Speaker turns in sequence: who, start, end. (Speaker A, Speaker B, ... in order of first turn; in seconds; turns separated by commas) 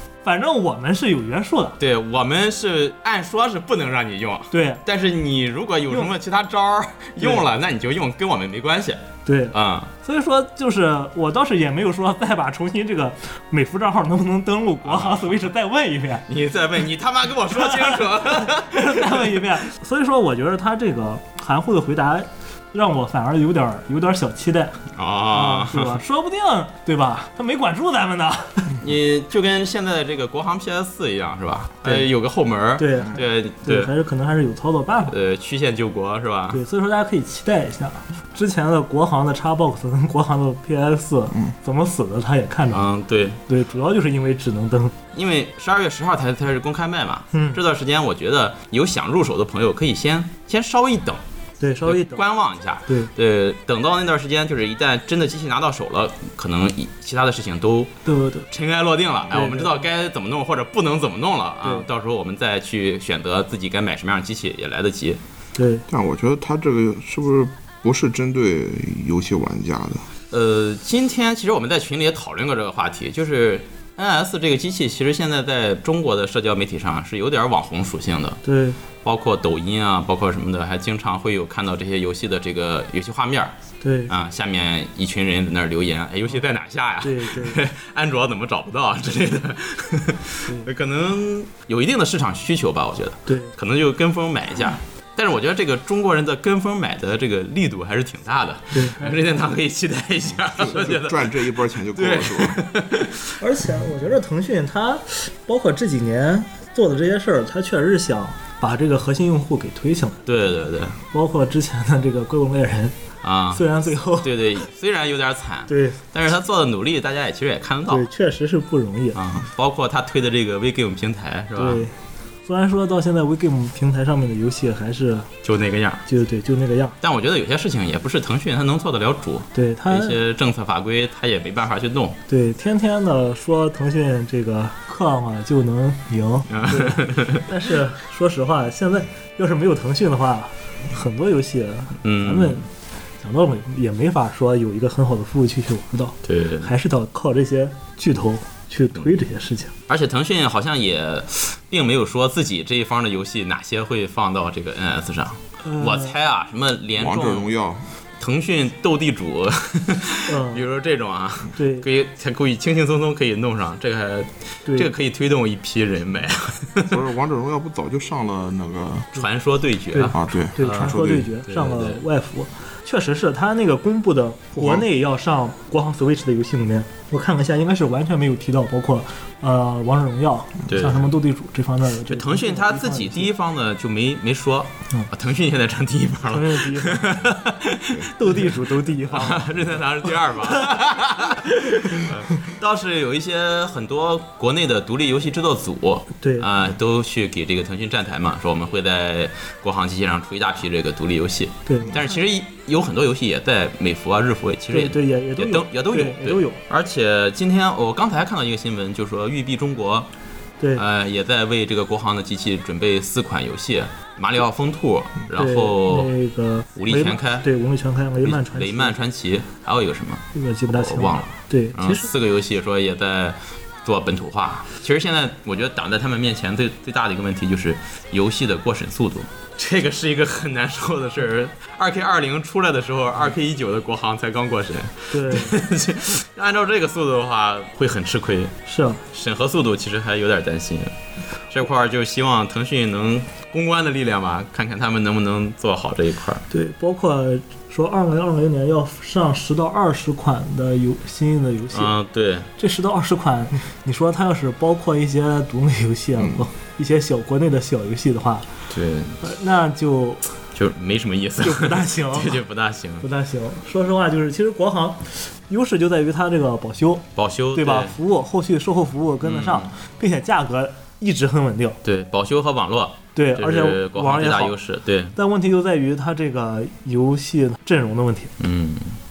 Speaker A: 0.2-1.8, Speaker B: 1.8-9.0, Speaker A: 4.5-4.8, Speaker A: 7.2-7.5, Speaker A: 9.2-16.2, Speaker B: 9.5-9.9, Speaker B: 14.8-15.5, Speaker B: 16.3-19.5, Speaker A: 17.5-24.8, Speaker B: 24.9-26.0, Speaker A: 25.3-28.8, Speaker B: 28.8-33.9, Speaker A: 32.8-35.1, Speaker B: 35.0-36.6, Speaker A: 36.5-42.9, Speaker B: 42.7-43.4, Speaker A: 43.5-45.0, Speaker B: 45.1-51.2, Speaker A: 47.3-47.6, Speaker A: 51.6-52.2, Speaker B: 51.8-57.9, Speaker A: 58.0-58.5, Speaker B: 58.5-65.2, Speaker A: 59.3-59.8, Speaker A: 65.5-65.8, Speaker C: 65.9-70.1, Speaker B: 70.3-78.4, Speaker A: 78.4-78.8, Speaker B: 79.0-83.5, Speaker A: 83.8-84.2, Speaker B: 84.1-103.2, Speaker A: 87.0-87.6, Speaker A: 93.3-93.5, Speaker A: 98.7-99.2, Speaker C: 100.4-102.6, Speaker A: 103.4-110.2, Speaker B: 110.2-111.0, Speaker A: 111.1-112.9, Speaker B: 113.2-118.1, Speaker A: 113.5-114.3, Speaker A: 115.7-116.0, Speaker A: 117.9-119.2, Speaker B: 119.1-121.9, Speaker A: 121.5-121.9, Speaker A: 122.5-125.3, Speaker B: 125.4-126.0, Speaker A: 126.0-127.0, Speaker B: 127.0-132.2, Speaker A: 129.5-130.2, Speaker A: 132.3-142.7, Speaker B: 136.5-137.4, Speaker B: 142.0-142.7, Speaker A: 143.2-149.7, Speaker B: 146.2-146.7, Speaker B: 149.9-157.5, Speaker A: 155.6-156.1, Speaker C: 157.0-157.9, Speaker B: 158.2-167.0, Speaker A: 160.3-160.6, Speaker A: 161.5-161.9, Speaker C: 166.9-169.2, Speaker B: 169.1-172.0, Speaker A: 169.9-183.3, Speaker C: 170.1-171.3, Speaker B: 180.7-181.0, Speaker B: 182.1-188.1, Speaker A: 186.2-187.3, Speaker A: 188.0-190.6, Speaker B: 189.1-210.1, Speaker A: 196.2-196.5, Speaker A: 201.7-202.1, Speaker A: 204.7-206.6, Speaker B: 210.7-216.1, Speaker A: 215.3-219.0, Speaker B: 216.8-217.5, Speaker B: 218.2-238.5, Speaker A: 220.3-222.1, Speaker A: 235.1-235.5, Speaker A: 238.7-239.0, Speaker B: 239.1-240.9, Speaker B: 241.5-246.4, Speaker A: 246.5-251.9, Speaker B: 251.7-252.5, Speaker A: 252.6-258.4, Speaker C: 256.1-256.4, Speaker B: 258.7-259.2, Speaker A: 259.2-260.2, Speaker B: 260.5-263.1, Speaker A: 261.4-262.4, Speaker A: 263.0-271.8, Speaker B: 267.1-267.9, Speaker B: 269.2-269.7, Speaker B: 271.8-275.1, Speaker A: 273.1-274.6, Speaker A: 275.1-278.3, Speaker B: 278.4-279.0